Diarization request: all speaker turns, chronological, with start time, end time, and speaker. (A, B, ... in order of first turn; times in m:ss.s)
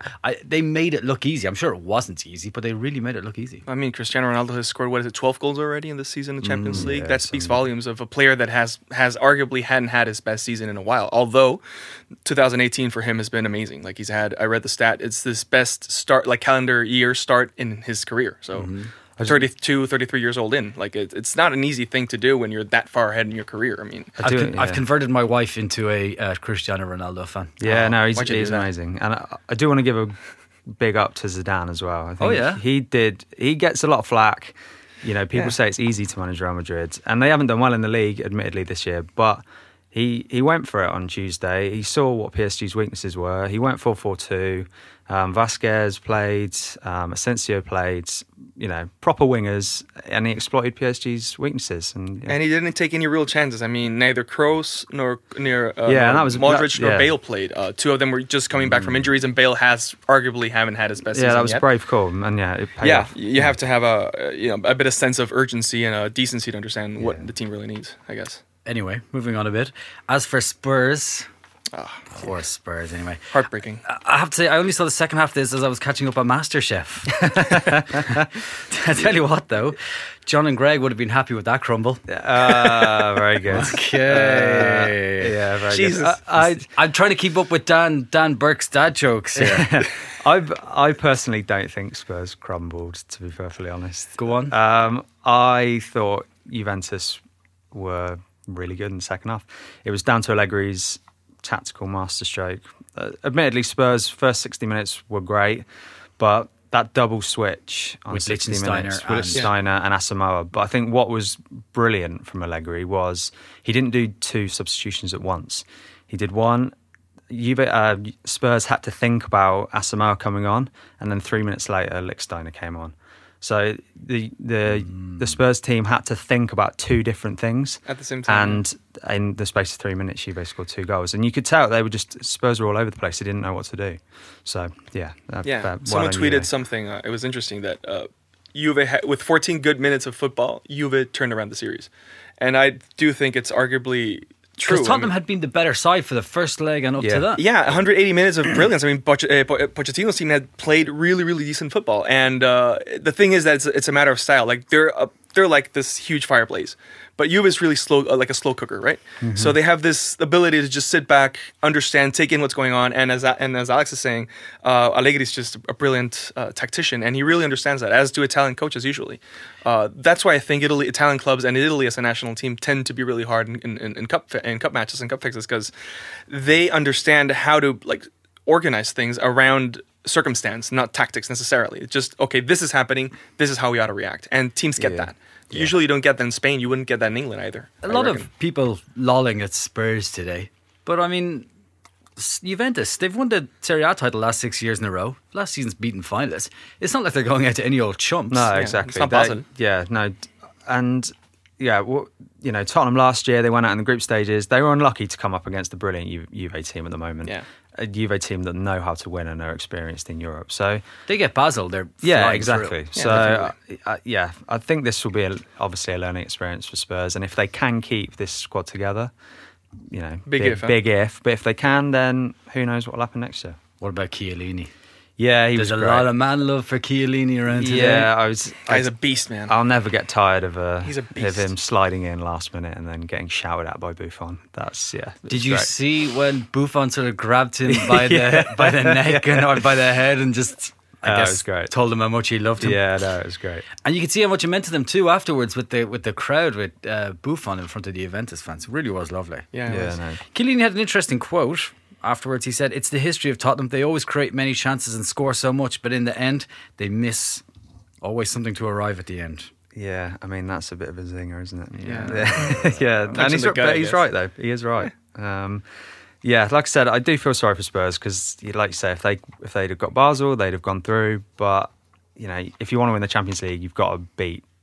0:00.2-0:03.6 A
0:03.7-0:11.6 B
0:06.4-0:06.9 A
0:06.6-0:07.7 C
0:12.2-0:18.7 B
0:18.5-0:18.9 A
0:19.2-0:19.5 C
0:19.2-0:24.1 B
0:24.2-0:27.6 A
0:24.2-0:24.8 C
0:27.6-0:30.2 C
0:27.6-0:28.7 B
0:30.7-0:52.4 C
0:32.2-0:32.6 A
0:52.3-1:01.6 B
0:55.9-0:57.1 C
0:58.6-0:59.0 A
1:01.1-1:03.5 C
1:02.8-1:08.4 B
1:08.6-1:11.3 A
1:11.7-1:12.1 B
1:12.1-1:25.4 A
1:13.3-1:13.8 B
1:17.2-1:18.3 C
1:22.1-1:26.7 C
1:25.7-1:26.2 B
1:26.7-1:29.7 A
1:29.4-1:45.6 C
1:34.2-1:34.5 A
1:46.2-1:56.8 C
1:48.1-1:49.5 A
1:57.3-2:16.5 C
2:04.9-2:05.2 A
2:07.9-2:08.6 B
2:15.4-2:25.1 B
2:24.6-2:27.4 A
2:27.0-2:27.3 C
2:27.4-2:55.7 B
2:39.2-2:39.6 C
2:56.3-3:08.3 B
3:04.8-3:05.7 C
3:07.8-3:11.5 A
3:12.2-3:18.6 A
3:18.3-3:30.8 C
3:18.5-3:19.4 B
3:31.1-3:33.4 A
3:32.0-3:39.1 C
3:33.0-3:33.4 B
3:39.8-3:43.6 C
3:40.3-3:40.7 B
3:43.8-3:44.7 A
3:45.2-3:46.1 C
3:45.5-3:48.1 A
3:47.5-3:48.9 C
3:48.7-3:49.5 B
3:49.5-3:55.7 C
3:50.8-3:51.5 B
3:55.3-4:02.8 A
3:57.7-3:59.6 C
4:01.0-4:01.7 C
4:02.6-4:03.6 C
4:03.8-4:09.5 A
4:09.5-4:10.0 B
4:09.6-4:10.2 C
4:10.3-4:17.4 A
4:18.0-4:19.5 A
4:19.8-4:25.6 C
4:21.8-4:23.0 A
4:21.8-4:24.0 B
4:26.2-4:34.4 C